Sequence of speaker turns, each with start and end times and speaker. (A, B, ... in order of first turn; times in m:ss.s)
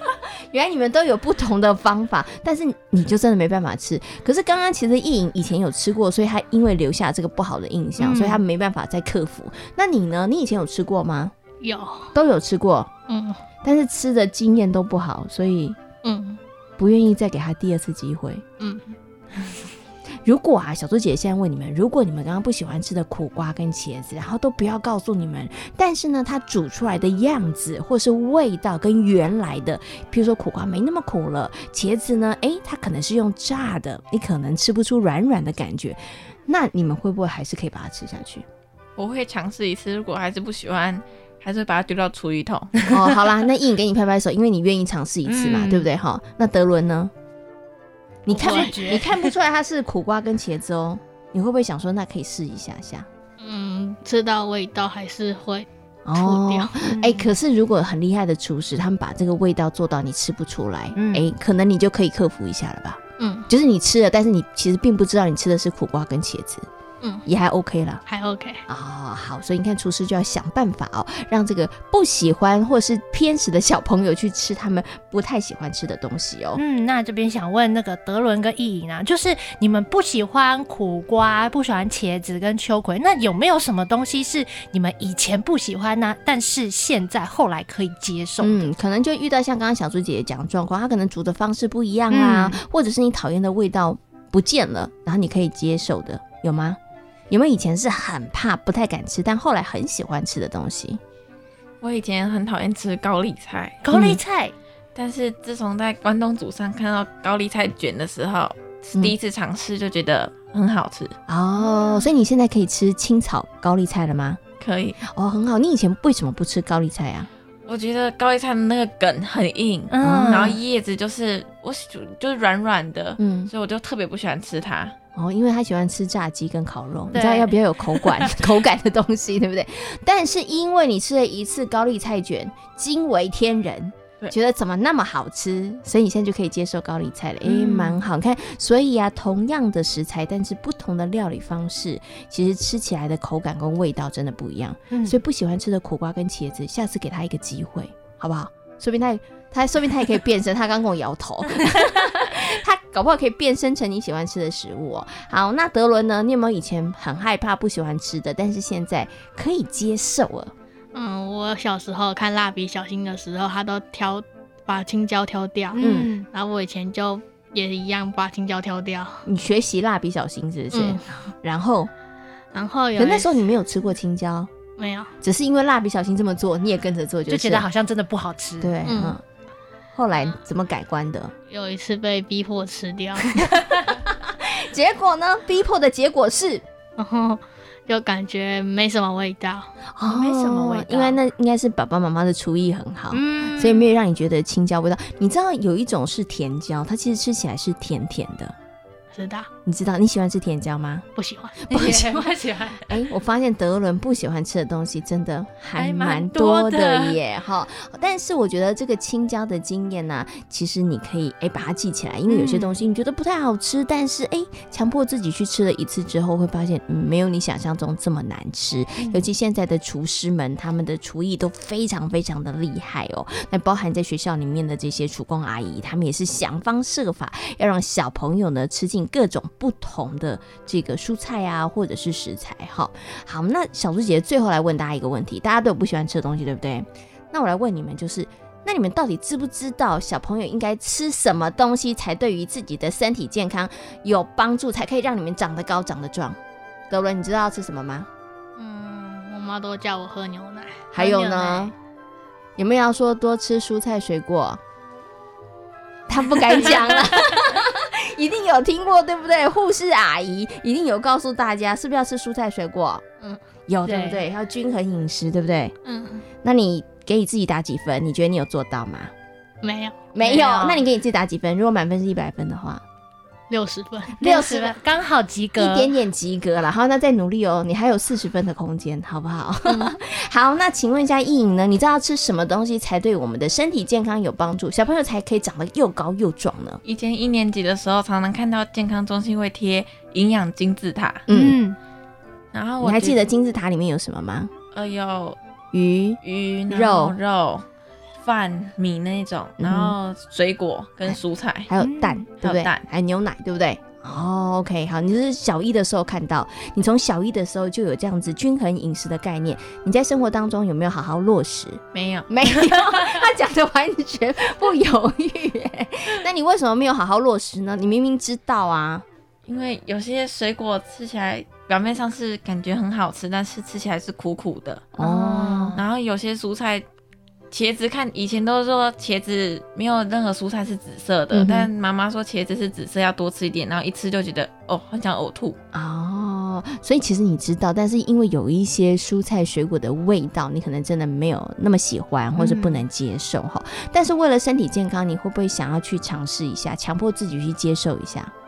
0:00.5-0:11.3 A
0:08.0-0:08.4 B
0:11.6-0:12.1 C
0:12.1-0:12.9 A
0:13.1-0:13.4 C
0:13.6-0:15.8 A
0:16.0-0:16.4 C
0:16.8-0:18.4 A
0:18.6-0:19.0 C
0:20.2-0:38.5 A
0:39.0-0:42.9 D
0:42.9-0:47.1 A
0:45.3-0:45.9 B
0:48.3-0:53.1 A
0:48.3-0:49.2 B
0:48.4-0:48.9 C
0:53.4-0:57.2 C
0:56.1-1:06.6 A
1:01.0-1:01.3 B
1:03.2-1:03.5 C
1:07.3-1:08.0 A
1:08.1-1:08.6 C
1:08.7-1:16.6 A
1:16.6-1:28.7 B
1:28.4-1:36.8 A
1:32.1-1:32.6 B
1:37.3-1:41.0 A
1:41.8-1:43.8 D
1:43.8-1:44.6 B
1:43.9-1:44.2 A
1:45.0-1:51.1 D
1:51.3-1:54.4 A
1:54.6-1:55.0 D
1:55.0-1:57.3 A
1:57.7-2:05.0 D
1:59.9-2:00.6 B
2:00.0-2:00.6 A
2:03.2-2:03.5 A
2:05.2-2:40.5 A
2:07.1-2:08.3 B
2:17.4-2:18.0 B
2:24.9-2:25.2 B
2:40.9-2:49.2 C
2:45.8-2:46.3 B
2:45.8-2:46.1 A
2:49.3-2:51.9 A
2:50.7-2:51.0 C
2:52.5-2:53.4 C
2:53.0-2:54.5 A
2:54.8-2:55.2 C
2:55.2-2:57.7 A
2:57.3-2:58.8 B
2:58.6-2:59.2 A
2:58.9-2:59.2 C
3:00.0-3:01.4 A
3:01.5-3:03.6 C
3:03.9-3:06.6 A
3:07.0-3:09.7 C
3:10.0-3:18.6 A
3:10.1-3:11.2 B
3:13.1-3:13.9 B
3:19.1-3:19.5 C
3:19.6-3:21.1 A
3:21.2-3:21.6 C
3:21.7-4:06.4 A
3:21.7-3:22.9 B
3:25.8-3:27.2 B
3:32.3-3:32.8 B
4:06.9-4:08.1 A
4:08.6-4:10.9 C
4:10.9-4:11.7 A
4:11.0-4:11.7 B
4:12.6-4:14.6 A
4:16.1-4:23.0 A
4:16.6-4:16.9 B
4:23.7-4:25.8 A
4:23.8-4:24.2 B
4:25.8-4:26.3 C
4:26.4-4:29.1 A
4:29.6-4:30.1 C
4:30.1-4:32.8 A
4:30.2-4:30.9 B
4:33.5-4:34.2 C
4:34.2-4:34.8 A
4:34.2-4:36.0 B
4:35.6-4:46.8 A
4:39.7-4:40.0 C
4:46.8-4:51.3 D
4:51.3-4:51.6 A
4:51.3-4:51.8 B
4:52.5-4:53.2 D
4:52.8-4:54.5 A
4:54.7-4:55.4 D
4:55.7-4:57.2 A
4:56.2-4:57.7 D
4:58.2-5:01.7 D
4:59.6-5:00.0 A
5:01.1-5:19.0 A
5:01.8-5:02.2 B
5:02.4-5:02.8 D
5:11.9-5:12.3 D
5:19.5-5:24.9 D
5:25.0-5:25.8 A
5:25.0-5:25.8 B
5:25.7-5:26.9 D
5:27.5-5:35.6 D
5:31.3-5:31.7 A
5:35.7-5:48.3 A
5:42.4-5:42.8 B